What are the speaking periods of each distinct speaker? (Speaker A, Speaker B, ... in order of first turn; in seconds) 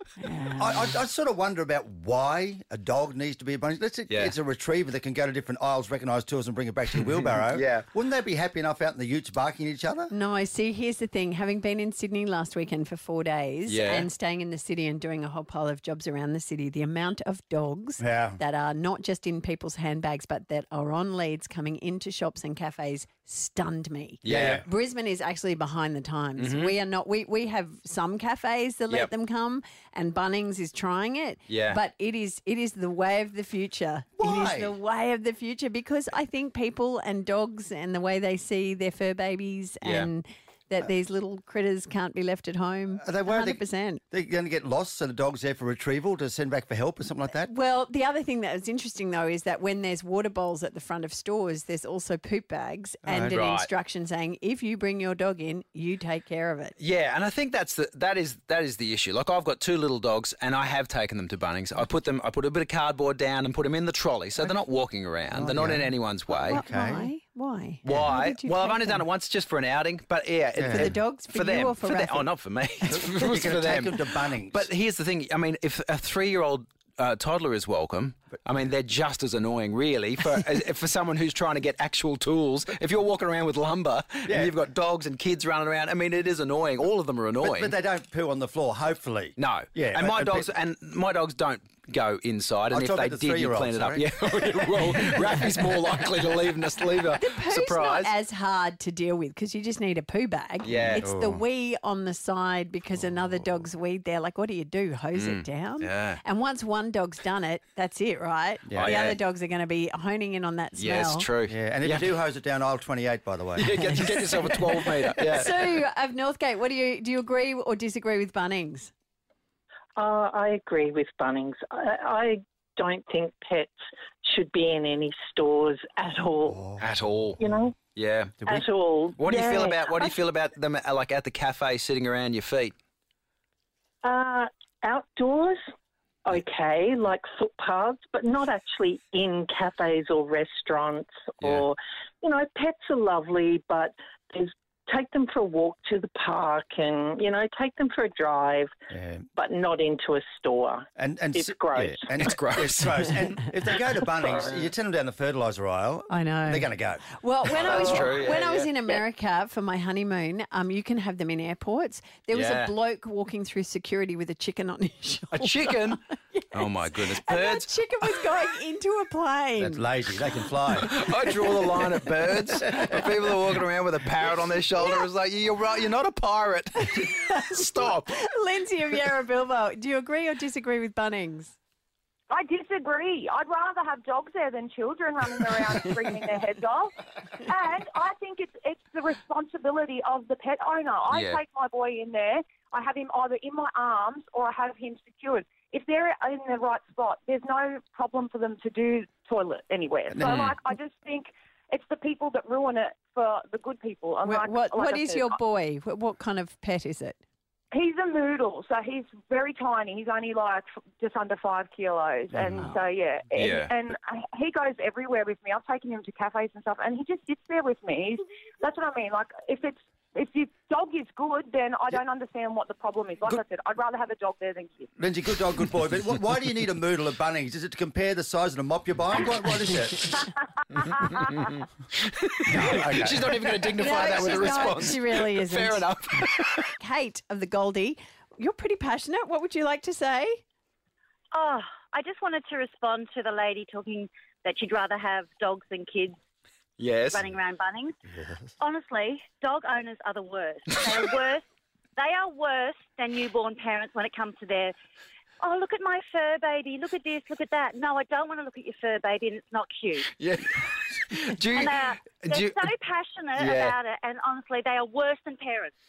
Speaker A: 0.2-0.9, 10.1-44.0, 47.4-56.8, 66.3-69.0, 70.6-72.3, 97.1-111.3, 113.6-118.9, 156.1-169.8, 176.9-181.6, 204.2-207.2, 233.8-235.9, 236.8-240.4
Speaker B: 0.6-10.1, 18.0-18.4, 24.3-24.6, 34.2-34.8, 43.0-47.5, 53.0-53.4, 65.3-67.1, 67.9-68.2, 70.6-71.0, 72.9-74.7, 84.3-84.5, 87.4-90.5, 92.7-95.5, 101.0-101.4, 103.0-103.6, 108.7-109.0, 111.5-113.8, 126.5-126.9, 148.9-149.3, 151.0-158.1, 169.6-171.0, 200.1-200.5, 225.0-230.3, 232.5-233.4, 248.1-248.5
Speaker C: 4.1-4.3, 6.9-7.9, 13.7-14.1, 24.2-24.7, 26.4-26.8, 31.5-31.8, 39.8-40.1, 53.3-53.7, 56.8-66.6, 67.8-87.8, 89.4-98.1, 100.6-101.1, 105.1-106.2, 108.7-109.2, 110.8-112.2, 113.6-115.8, 126.8-128.4, 129.2-132.8, 152.2-153.5, 157.5-158.9, 162.3-162.7, 165.3-166.0, 166.5-167.7, 170.7-178.2, 191.1-191.4, 200.2-200.6, 213.3-213.8, 230.8-236.7, 246.8-247.3, 250.7-251.1, 260.1-262.7, 263.4-263.8
Speaker D: 120.0-126.7, 127.4-127.8, 128.5-130.2, 134.0-135.6, 136.2-148.7, 149.3-152.0
Speaker E: 182.3-205.4, 207.7-224.9
Speaker F: 241.3-246.2, 247.1-248.0, 248.6-251.4, 252.0-254.8, 255.4-260.1, 261.5-265.7